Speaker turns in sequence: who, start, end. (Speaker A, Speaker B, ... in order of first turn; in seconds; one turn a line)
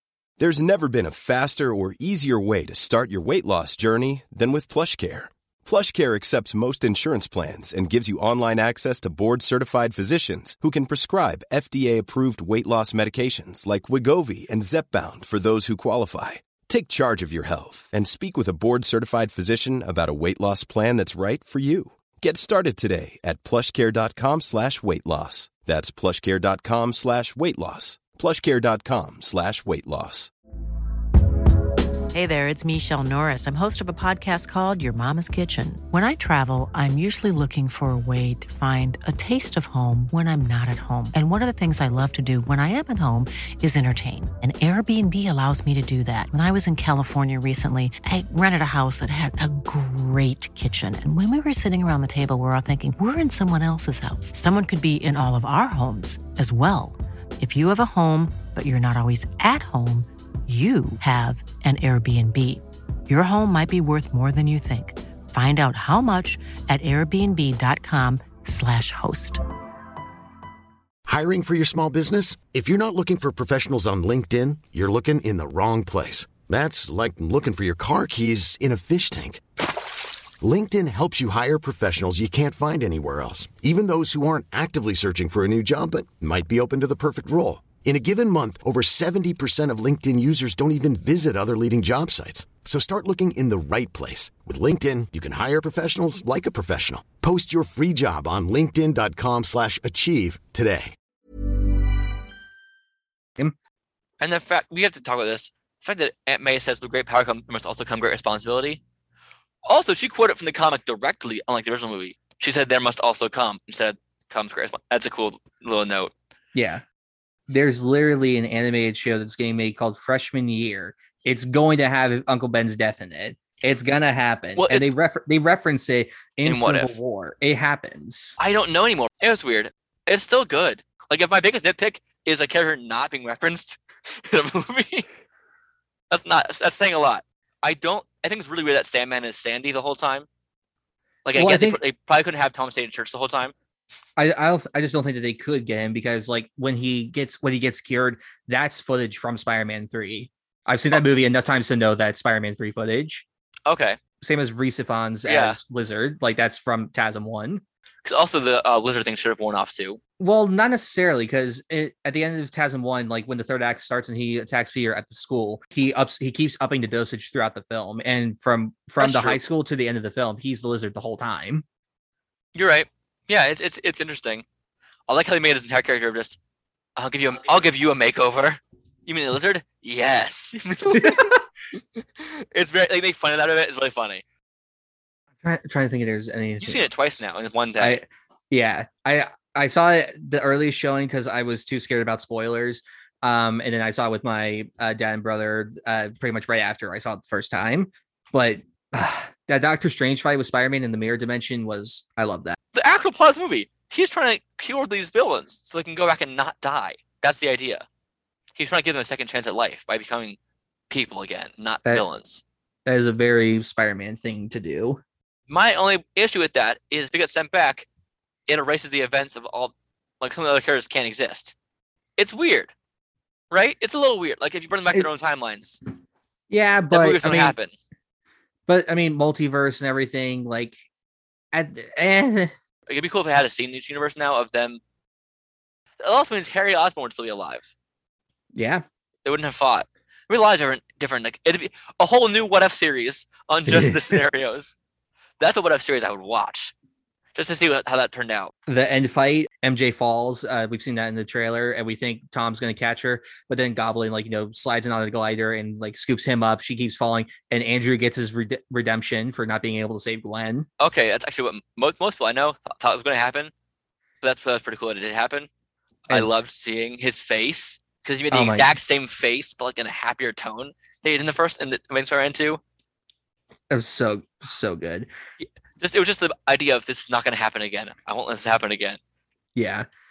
Speaker A: 0.4-30.3
Speaker B: 32.1-69.4
Speaker C: 71.1-79.4
Speaker C: 80.4-100.9
Speaker D: 104.2-108.8
Speaker D: 109.7-116.1
Speaker E: 116.5-116.8
Speaker E: 117.5-128.4
Speaker D: 124.6-124.9
Speaker D: 126.4-126.9
Speaker D: 128.4-135.1
Speaker D: 136.1-140.3
Speaker D: 141.2-143.5
Speaker E: 141.3-141.8
Speaker E: 144.2-153.2
Speaker D: 153.7-154.0
Speaker E: 154.2-157.6
Speaker D: 155.2-155.6
Speaker D: 158.0-160.0
Speaker E: 160.2-171.6
Speaker D: 169.0-169.4
Speaker D: 172.5-174.4
Speaker D: 175.1-176.4
Speaker D: 177.0-181.4
Speaker E: 180.9-181.4
Speaker D: 182.2-184.2
Speaker E: 185.4-186.9
Speaker D: 186.6-188.0
Speaker E: 187.8-202.6
Speaker D: 202.7-207.8
Speaker D: 208.5-210.4
Speaker D: 210.9-212.4
Speaker E: 212.8-215.0
Speaker D: 215.5-217.9
Speaker D: 218.5-221.5
Speaker D: 222.2-222.7
Speaker D: 223.5-225.8
Speaker E: 226.5-227.5
Speaker D: 226.9-227.7
Speaker E: 228.7-230.8
Speaker E: 231.5-232.5
Speaker D: 232.9-234.8
Speaker D: 236.0-237.7
Speaker E: 238.5-238.8
Speaker D: 239.2-244.7
Speaker E: 243.7-244.2
Speaker D: 245.4-246.7
Speaker D: 247.3-248.5
Speaker E: 248.7-260.7
Speaker D: 260.8-263.5
Speaker D: 264.2-265.5
Speaker D: 266.1-272.6
Speaker E: 268.3-268.7
Speaker E: 273.7-275.1
Speaker D: 275.4-279.0
Speaker E: 279.6-279.9